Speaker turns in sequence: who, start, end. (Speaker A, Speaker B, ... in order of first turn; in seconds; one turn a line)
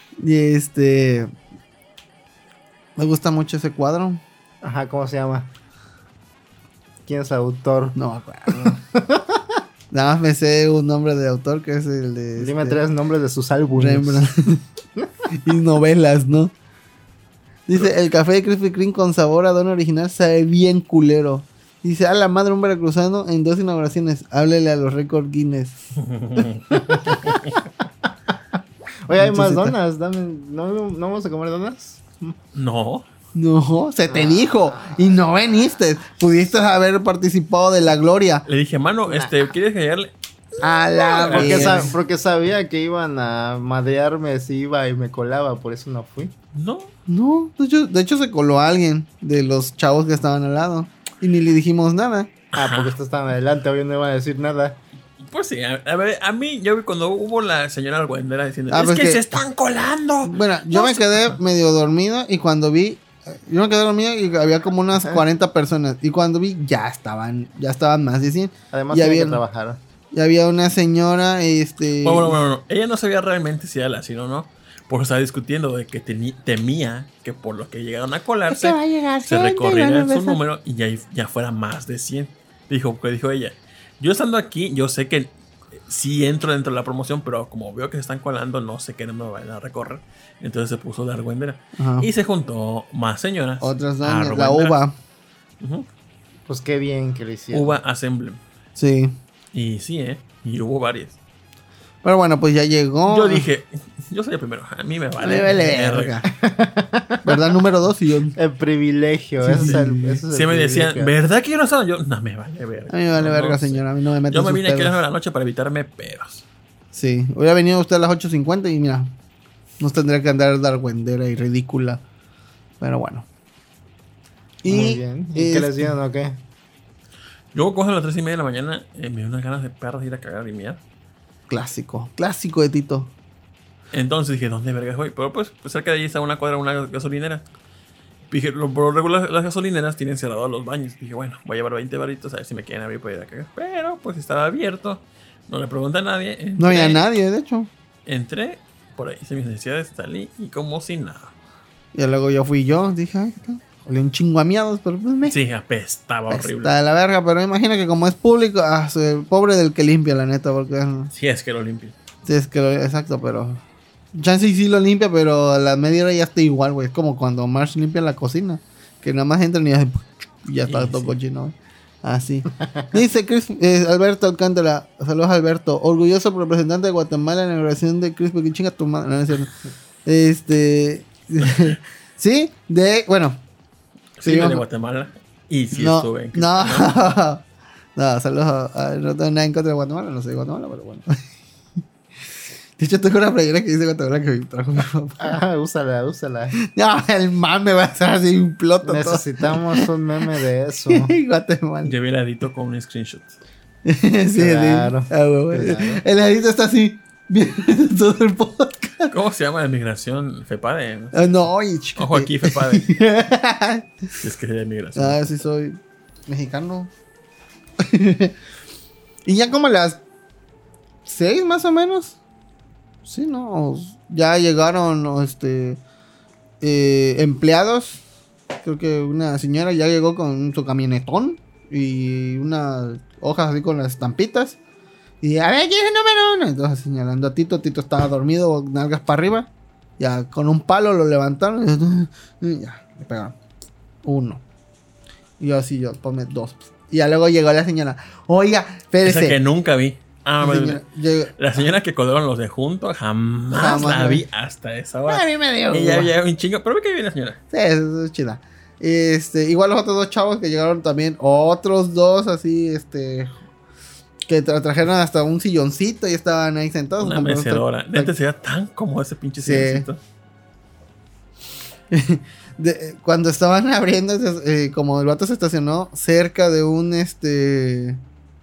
Speaker A: 0.2-1.3
Speaker A: 3.0-4.2
Speaker B: 4.6-5.5
Speaker B: 7.1-8.0
Speaker A: 8.0-8.8
Speaker B: 8.5-9.6
Speaker A: 9.9-12.8
Speaker B: 12.4-14.3
Speaker A: 13.8-14.7
Speaker A: 15.3-16.5
Speaker A: 17.7-25.8
Speaker C: 26.0-27.5
Speaker B: 26.7-27.4
Speaker B: 29.1-32.4
Speaker A: 29.2-29.7
Speaker C: 32.5-33.0
Speaker A: 33.4-38.5
Speaker B: 34.1-35.3
Speaker C: 38.5-40.1
Speaker B: 39.1-39.4
Speaker A: 40.6-41.9
Speaker B: 40.6-46.3
Speaker C: 41.3-41.9
Speaker C: 46.5-46.9
Speaker A: 47.1-52.3
Speaker C: 52.5-53.0
Speaker B: 52.5-54.8
Speaker C: 55.2-61.4
Speaker A: 58.7-59.4
Speaker A: 60.3-69.4
Speaker B: 68.7-69.8
Speaker A: 70.1-72.4
Speaker C: 72.0-94.8
Speaker A: 78.5-80.4
Speaker A: 91.8-92.1
Speaker A: 93.6-94.9
Speaker C: 95.6-95.9
Speaker B: 96.5-97.8
Speaker C: 97.5-98.4
Speaker A: 98.8-99.2
Speaker C: 99.5-101.2
Speaker A: 102.0-103.5
Speaker C: 103.1-106.3
Speaker A: 105.2-106.3
Speaker B: 106.3-107.4
Speaker A: 107.2-108.4
Speaker B: 108.3-111.1
Speaker A: 109.4-110.2
Speaker C: 109.5-116.5
Speaker A: 112.9-115.0
Speaker A: 116.9-119.1
Speaker A: 119.8-122.0
Speaker A: 122.8-123.3
Speaker A: 124.6-125.9
Speaker B: 124.7-126.4
Speaker C: 127.5-130.8
Speaker A: 131.5-133.1
Speaker C: 133.9-137.4
Speaker C: 138.3-147.0
Speaker A: 146.6-147.7
Speaker C: 148.1-151.3
Speaker A: 151.9-155.4
Speaker C: 155.3-156.7
Speaker A: 156.3-161.1
Speaker C: 161.1-161.9
Speaker A: 162.2-163.6
Speaker A: 164.1-179.5
Speaker C: 170.7-171.2
Speaker A: 180.1-183.4
Speaker C: 181.5-181.7
Speaker C: 184.2-187.0
Speaker A: 184.2-184.6
Speaker A: 185.8-187.4
Speaker A: 188.0-191.2
Speaker A: 192.8-195.3
Speaker B: 195.2-196.6
Speaker A: 196.6-199.9
Speaker B: 198.8-201.1
Speaker A: 200.9-201.9
Speaker C: 201.8-203.4
Speaker A: 203.8-209.1
Speaker B: 204.3-206.0
Speaker C: 209.1-213.0
Speaker A: 211.1-213.9
Speaker C: 214.2-215.3
Speaker A: 215.0-216.9
Speaker A: 217.8-218.3
Speaker A: 219.2-220.0
Speaker A: 221.1-222.2
Speaker A: 223.1-225.8
Speaker A: 226.6-228.0
Speaker A: 228.6-234.6
Speaker A: 235.2-243.3
Speaker A: 244.0-244.4
Speaker A: 245.4-249.4
Speaker C: 249.1-250.8
Speaker A: 250.4-251.4
Speaker C: 251.4-257.4
Speaker A: 253.5-254.2
Speaker A: 255.1-256.1
Speaker A: 257.5-263.3
Speaker A: 264.3-268.1
Speaker C: 267.0-270.0
Speaker A: 269.4-269.9
Speaker A: 271.9-278.0